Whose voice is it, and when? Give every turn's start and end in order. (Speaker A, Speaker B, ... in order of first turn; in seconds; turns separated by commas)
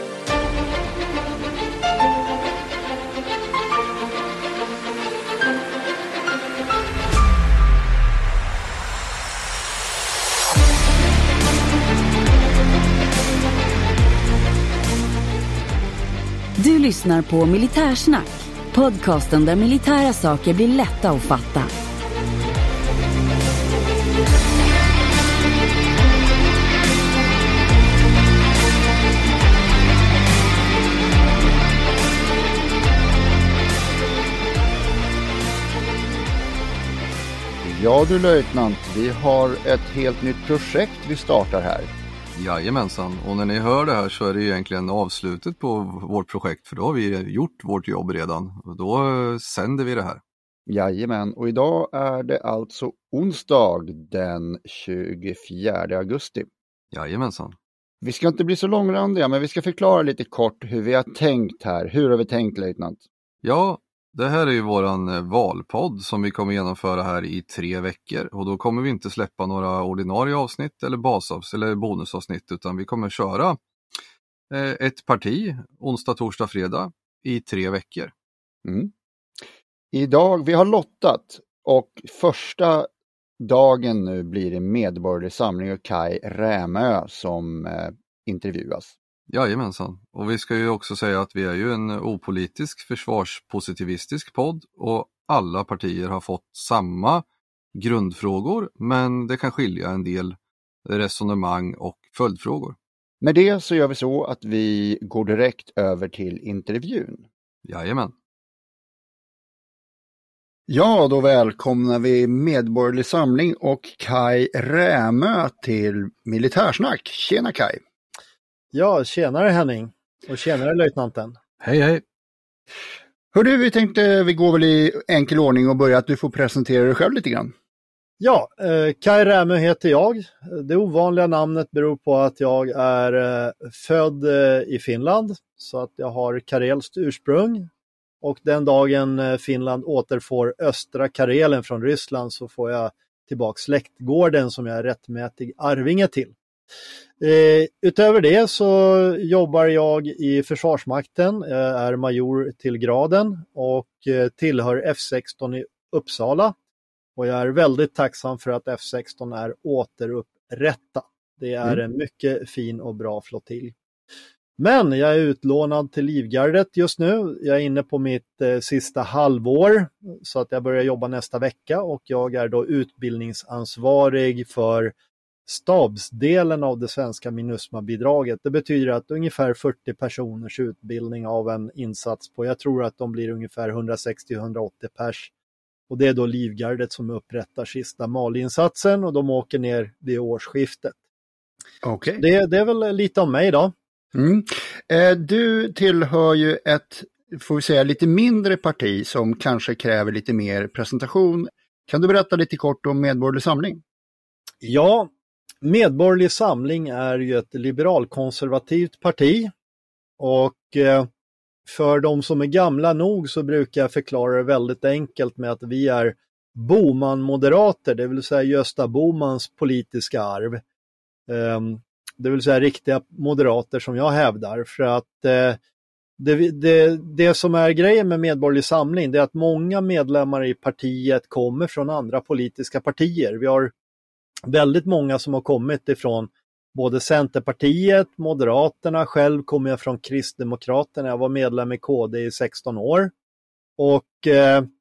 Speaker A: 16.6-21.7, Speaker B: 37.6-41.9, Speaker C: 42.4-50.2, Speaker B: 50.7-56.5, Speaker C: 56.9-57.6, Speaker B: 58.0-63.0, Speaker C: 63.4-73.6, Speaker C: 74.5-78.1, Speaker B: 78.6-78.9, Speaker B: 79.9-82.9, Speaker B: 83.4-88.9, Speaker C: 89.3-97.2, Speaker C: 97.8-102.8, Speaker B: 103.2-107.3, Speaker C: 107.7-108.1, Speaker B: 110.7-117.8, Speaker D: 118.7-121.4, Speaker C: 121.6-122.0, Speaker B: 123.3-127.5, Speaker D: 128.2-137.7, Speaker D: 138.2-146.3, Speaker D: 147.2-156.5, Speaker D: 157.2-163.8, Speaker D: 164.6-174.9, Speaker D: 175.5-185.3, Speaker D: 185.9-190.9, Speaker B: 191.8-192.2, Speaker D: 192.2-193.7, Speaker B: 194.1-203.8, Speaker D: 204.6-205.1, Speaker D: 205.6-209.5, Speaker D: 210.2-211.1, Speaker D: 211.7-220.6, Speaker D: 221.3-225.6, Speaker D: 226.2-233.7, Speaker D: 234.5-243.1, Speaker D: 243.8-244.7